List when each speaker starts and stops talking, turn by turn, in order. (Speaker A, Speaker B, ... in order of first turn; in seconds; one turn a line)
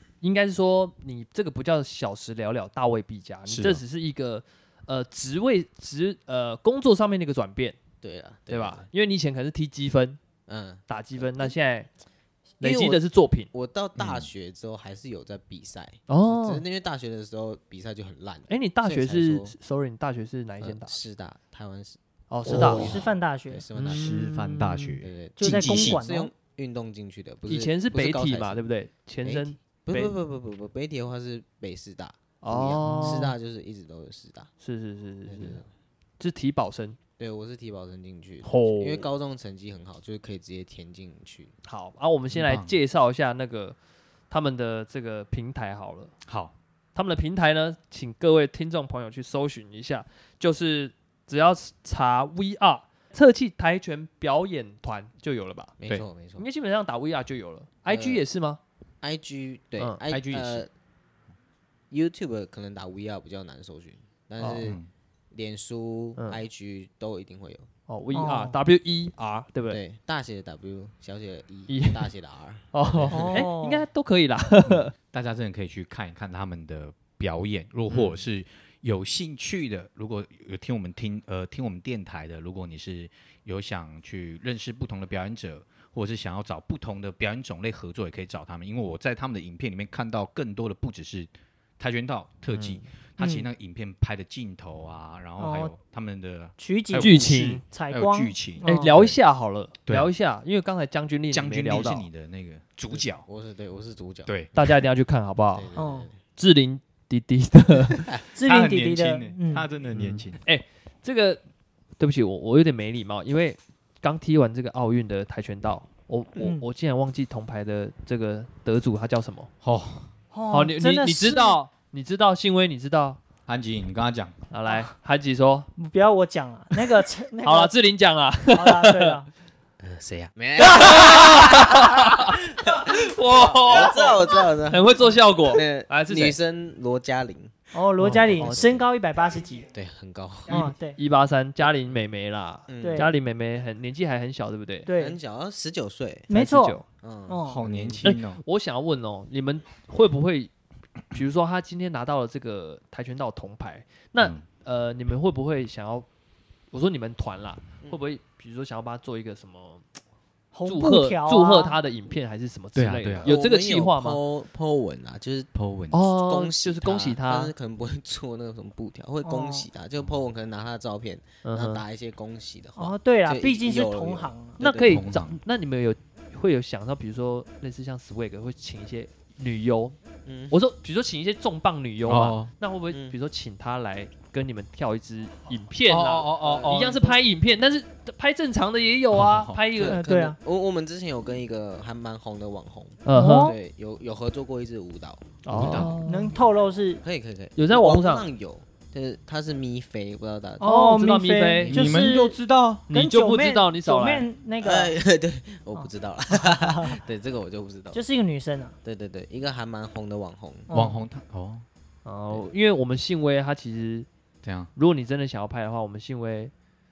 Speaker A: 0.2-7.8
Speaker B: 3.5-3.8
Speaker C: 8.0-8.9
Speaker A: 8.5-10.2
Speaker C: 10.5-11.5
Speaker A: 10.9-11.9
Speaker A: 12.6-13.5
Speaker C: 12.6-19.5
Speaker B: 14.0-14.3
Speaker A: 16.1-16.6
Speaker A: 18.5-21.0
Speaker C: 20.6-24.2
Speaker A: 22.3-22.9
Speaker D: 22.4-23.6
Speaker B: 22.5-23.0
Speaker A: 23.8-25.0
Speaker B: 23.8-26.0
Speaker C: 25.0-28.6
Speaker D: 25.4-26.3
Speaker A: 27.4-30.1
Speaker C: 29.2-34.5
Speaker A: 32.4-33.4
Speaker B: 32.8-33.3
Speaker A: 34.6-35.6
Speaker C: 35.2-35.7
Speaker A: 36.2-37.0
Speaker C: 37.2-41.5
Speaker A: 38.4-39.1
Speaker A: 41.6-43.8
Speaker B: 42.3-42.8
Speaker A: 44.3-46.1
Speaker B: 46.2-46.5
Speaker A: 46.9-55.7
Speaker C: 55.8-56.5
Speaker A: 56.4-58.6
Speaker C: 57.9-58.2
Speaker C: 59.0-60.7
Speaker B: 60.1-60.6
Speaker C: 61.9-64.8
Speaker A: 64.4-64.6
Speaker B: 64.6-64.9
Speaker C: 65.3-67.7
Speaker A: 66.2-66.4
Speaker A: 67.9-69.8
Speaker D: 68.1-68.6
Speaker C: 69.7-73.5
Speaker A: 71.7-72.1
Speaker A: 72.7-74.9
Speaker D: 73.1-73.8
Speaker B: 74.7-99.2
Speaker A: 77.9-78.2
Speaker A: 92.5-92.9
Speaker D: 93.2-93.5
Speaker D: 95.4-95.7
Speaker D: 96.6-98.9
Speaker A: 97.0-97.6
Speaker A: 98.6-102.1
Speaker B: 101.3-103.3
Speaker C: 102.9-104.3
Speaker B: 104.2-104.6
Speaker A: 104.5-105.7
Speaker C: 105.5-106.2
Speaker D: 105.8-106.1
Speaker A: 106.4-108.1
Speaker D: 108.3-109.7
Speaker B: 108.4-110.4
Speaker A: 109.9-111.4
Speaker A: 112.0-119.5
Speaker D: 116.4-116.6
Speaker B: 119.6-120.1
Speaker D: 120.3-121.6
Speaker A: 120.5-123.2
Speaker B: 123.5-124.3
Speaker A: 124.5-125.7
Speaker D: 125.8-127.7
Speaker A: 127.4-129.2
Speaker D: 128.5-129.3
Speaker C: 129.8-138.8
Speaker A: 130.6-136.3
Speaker D: 137.7-139.7
Speaker A: 138.0-138.7
Speaker C: 139.7-140.7
Speaker D: 140.5-141.0
Speaker A: 140.5-144.9
Speaker C: 142.7-143.1
Speaker D: 142.8-143.1
Speaker D: 144.8-145.2
Speaker C: 145.0-146.3
Speaker D: 146.3-147.6
Speaker A: 146.3-146.8
Speaker C: 147.0-148.2
Speaker B: 147.5-148.4
Speaker A: 148.0-150.5
Speaker A: 151.1-156.1
Speaker B: 154.2-154.4
Speaker A: 156.7-159.8
Speaker D: 160.5-161.8
Speaker A: 160.6-164.2
Speaker B: 162.7-163.3
Speaker C: 163.2-165.5
Speaker B: 165.5-166.0
Speaker A: 165.9-167.5
Speaker C: 166.1-175.0
Speaker D: 169.2-169.7
Speaker A: 171.4-171.8
Speaker D: 172.8-174.6
Speaker A: 174.6-180.0
Speaker B: 174.8-175.4
Speaker C: 180.2-180.6
Speaker A: 180.5-190.0
Speaker B: 182.1-182.5
Speaker C: 182.9-183.2
Speaker B: 185.9-187.0
Speaker C: 186.3-187.2
Speaker B: 189.1-189.6
Speaker C: 189.7-195.2
Speaker D: 189.9-190.4
Speaker A: 193.0-193.5
Speaker D: 193.1-193.6
Speaker A: 195.4-196.4
Speaker B: 195.5-196.0
Speaker D: 196.1-197.0
Speaker C: 197.0-200.7
Speaker A: 197.6-198.3
Speaker A: 200.6-201.9
Speaker D: 200.6-202.4
Speaker B: 201.6-202.8
Speaker A: 202.9-204.3
Speaker D: 202.9-204.9
Speaker C: 204.6-208.0
Speaker D: 205.7-207.0
Speaker D: 207.9-208.8
Speaker C: 208.8-210.7
Speaker D: 210.7-211.0
Speaker B: 210.7-211.7
Speaker A: 212.0-214.1
Speaker B: 214.4-214.7
Speaker A: 214.7-216.5